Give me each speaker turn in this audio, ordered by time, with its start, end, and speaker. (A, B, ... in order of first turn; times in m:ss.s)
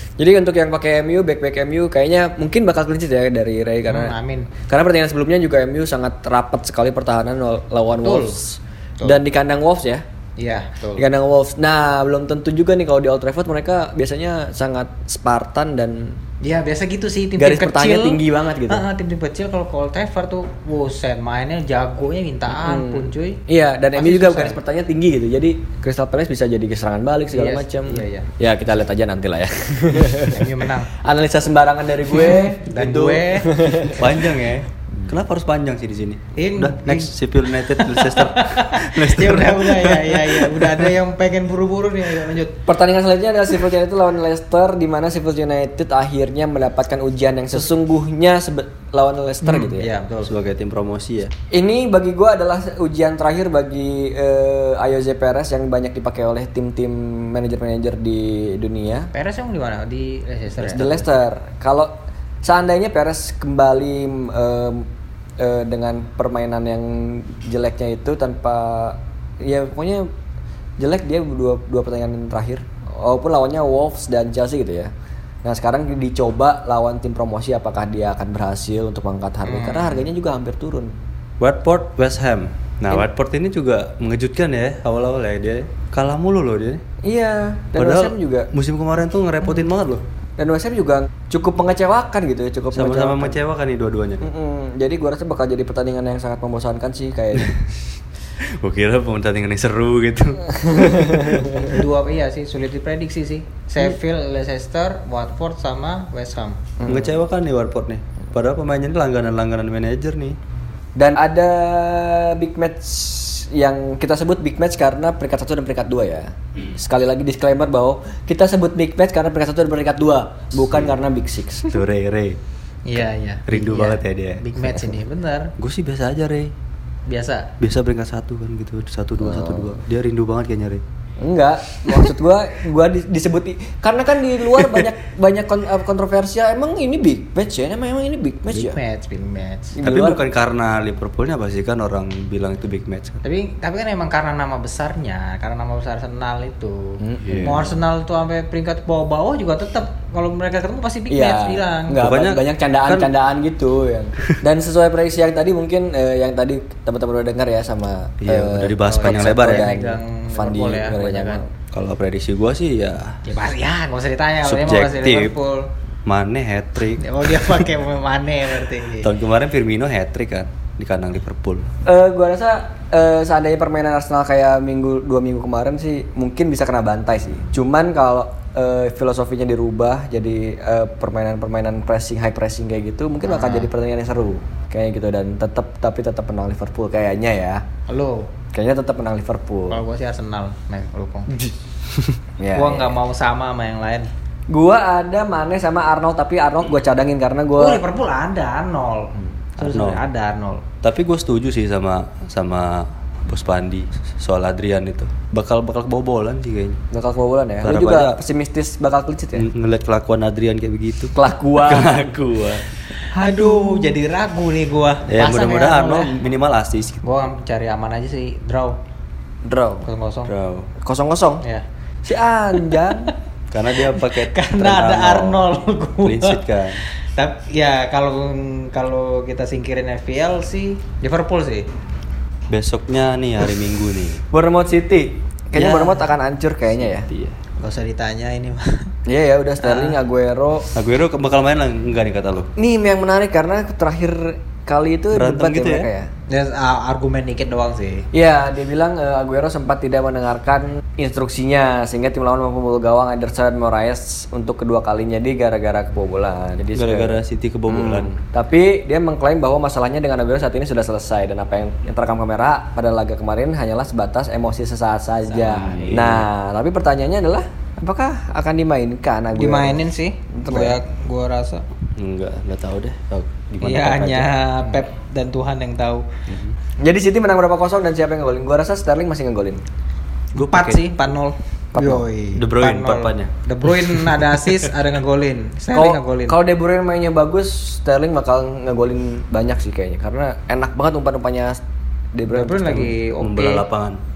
0:00.2-0:04.2 A
0:03.9-0:04.5 B
0:04.7-0:10.0 A
0:08.0-0:08.4 B
0:10.4-0:11.0 B
0:11.0-0:16.2 A
0:16.4-0:23.4 B
0:17.4-0:18.8 A
0:22.5-0:32.7 A
0:23.9-0:24.6 B
0:27.3-0:28.3 B
0:30.3-0:30.9 B
0:32.1-0:33.5 B
0:32.7-0:33.2 C
0:33.4-0:34.2 A
0:33.9-0:40.7 C
0:36.4-0:42.6 B
0:42.6-0:49.9 A
0:49.4-0:50.3 B
0:50.2-0:51.3 C
0:51.5-0:59.1 A
0:59.1-1:01.0 B
1:00.6-1:04.9 A
1:05.4-1:10.1 A
1:10.8-1:14.9 A
1:15.4-1:20.9 A
1:19.4-1:20.1 B
1:21.4-1:26.8 C
1:27.0-1:28.5 A
1:27.8-1:30.0 C
1:30.4-1:33.4 A
1:32.7-1:34.3 C
1:34.2-1:37.6 A
1:37.4-1:37.6 C
1:38.4-1:41.6 C
1:40.6-1:41.7 A
1:41.7-1:46.6 B
1:46.8-1:47.2 A
1:46.8-1:50.4 C
1:51.0-2:01.8 A
2:01.7-2:02.4 C
2:02.8-2:05.5 B
2:03.5-2:04.4 C
2:05.6-2:06.5 C
2:07.1-2:07.5 B
2:07.6-2:10.8 C
2:09.2-2:09.8 A
2:11.2-2:18.8 A
2:18.5-2:19.8 B
2:19.7-2:20.2 A
2:19.8-2:23.2 C
2:23.2-2:32.0 B
2:27.0-2:27.8 A
2:27.2-2:27.6 C
2:31.1-2:41.5 A
2:32.0-2:33.1 C
2:38.2-2:39.7 C
2:38.8-2:41.4 B
2:41.7-2:43.2 C
2:43.2-2:45.7 B
2:44.4-2:45.4 C
2:46.0-2:47.0 C
2:47.0-2:49.1 B
2:49.0-2:51.7 C
2:51.8-3:07.6 A
3:03.2-3:03.7 B
3:07.9-3:08.3 B
3:08.5-3:09.8 A
3:09.7-3:11.3 B
3:11.3-3:11.6 A
3:12.4-3:13.0 A
3:12.5-3:14.1 B
3:14.5-3:17.8 A
3:17.6-3:20.6 B
3:19.6-3:20.0 C
3:20.8-3:26.8 C
3:26.9-3:29.5 A
3:27.6-3:28.2 C
3:29.4-3:32.6 C
3:31.1-3:32.0 A
3:33.1-3:34.0 A
3:33.2-3:36.1 B
3:35.1-3:37.0 C
3:37.0-3:38.8 B
3:39.4-3:39.8 A
3:39.8-3:40.3 B
3:40.3-3:40.7 C
3:40.8-3:41.4 A
3:42.0-3:43.1 A
3:42.6-3:43.1 B
3:43.5-3:45.4 C
3:43.9-3:46.4 B
3:46.0-3:46.8 C
3:47.0-3:51.7 B
3:52.5-3:54.2 C
3:54.3-3:57.1 A
3:55.5-3:56.1 C
3:57.1-3:57.4 C
3:57.6-3:58.9 B
3:59.0-4:00.7 A
3:59.6-4:00.0 B
4:00.7-4:02.5 C
4:02.6-4:06.1 A
4:05.1-4:05.9 C
4:06.3-4:08.1 B
4:08.1-4:29.8 A
4:16.7-4:18.1 C
4:25.2-4:26.0 B
4:25.8-4:26.2 C
4:29.3-4:31.6 B
4:30.3-4:30.8 A
4:32.0-4:34.3 C
4:33.6-4:36.1 B
4:36.3-4:36.5 C
4:36.8-4:39.6 A
4:40.3-4:40.9 C
4:40.4-4:46.4 B
4:41.7-4:42.0 A
4:42.4-4:44.1 C
4:45.7-4:51.6 A
4:52.1-4:52.9 A
4:52.3-4:53.6 B
4:53.2-4:54.0 C